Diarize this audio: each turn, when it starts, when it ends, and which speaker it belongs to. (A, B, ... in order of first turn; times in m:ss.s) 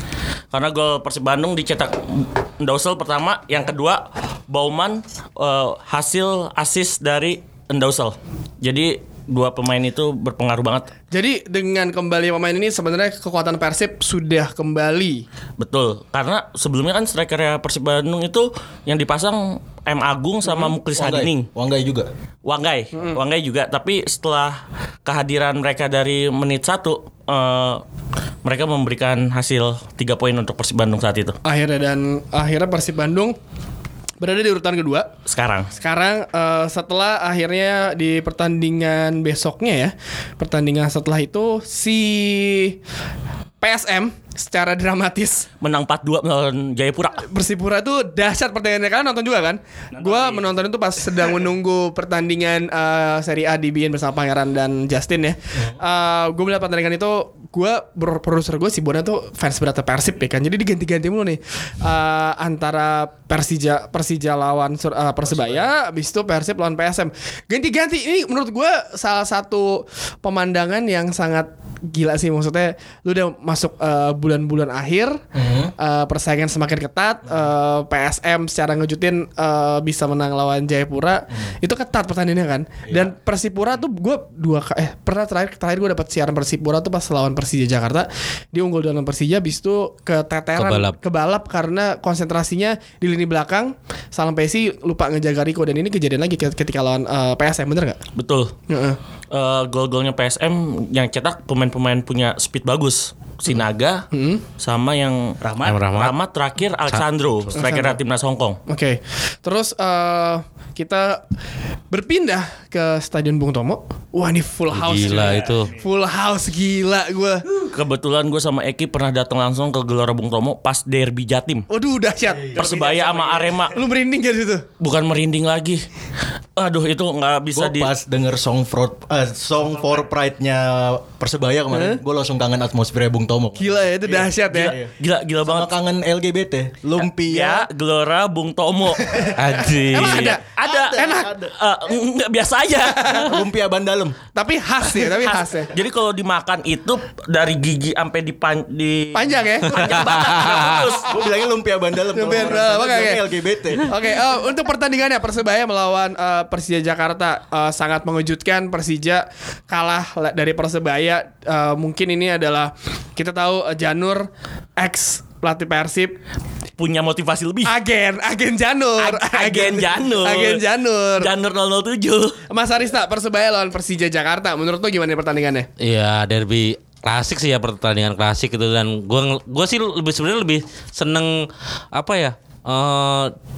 0:00.5-0:10.9 A
0:11.1-0:15.2 B
0:15.6-0:21.5 A
0:20.9-0:22.1 C
0:22.4-0:27.8 A
0:22.9-0:23.2 B
0:28.4-0:31.4 A
0:31.4-0:33.4 B
0:34.2-0:35.1 B
0:35.3-0:35.7 A
0:35.8-0:42.8 B
0:43.6-0:45.5 B
0:45.6-0:47.2 A
0:47.2-1:15.2 B
0:49.9-0:50.6 D
1:05.3-1:05.6 C
1:15.4-1:15.7 C
1:15.8-1:38.0 B
1:22.9-1:23.1 C
1:30.6-1:31.0 E
1:38.2-1:38.6 A
1:38.7-1:39.0 B
1:39.3-1:44.1 A
1:44.1-1:44.4 B
1:44.6-1:45.4 A
1:45.4-1:45.9 D
1:45.6-1:46.2 E
1:45.9-1:48.6 A
1:47.6-1:48.0 B
1:48.7-1:51.2 B
1:51.9-1:57.7 B
1:54.7-1:55.7 E
1:54.9-1:55.8 D
1:57.7-2:01.7 A
2:01.7-2:02.5 B
2:02.6-2:03.7 D
2:02.6-2:03.8 A
2:03.7-2:04.7 B
2:04.8-2:05.8 A
2:06.6-2:07.9 A
2:07.5-2:14.9 C
2:09.8-2:10.1 D
2:11.7-2:12.0 B
2:13.6-2:14.8 B
2:14.5-2:15.7 A
2:15.4-2:17.7 C
2:17.0-2:19.2 A
2:19.1-2:19.4 C
2:19.4-2:20.3 E
2:19.9-2:21.3 B
2:19.9-2:23.2 A
2:20.6-2:21.5 C
2:22.8-2:23.4 B
2:23.1-2:24.2 C
2:24.3-2:25.7 B
2:25.3-2:31.1 A
2:29.1-2:30.0 B
2:29.8-2:30.9 E
2:31.1-2:33.9 C
2:32.1-2:33.2 B
2:33.8-2:46.2 B
2:46.8-2:47.7 A
2:47.6-2:51.3 B
2:49.0-2:50.6 A
2:51.2-2:52.4 A
2:52.5-2:55.7 B
2:55.8-3:03.4 E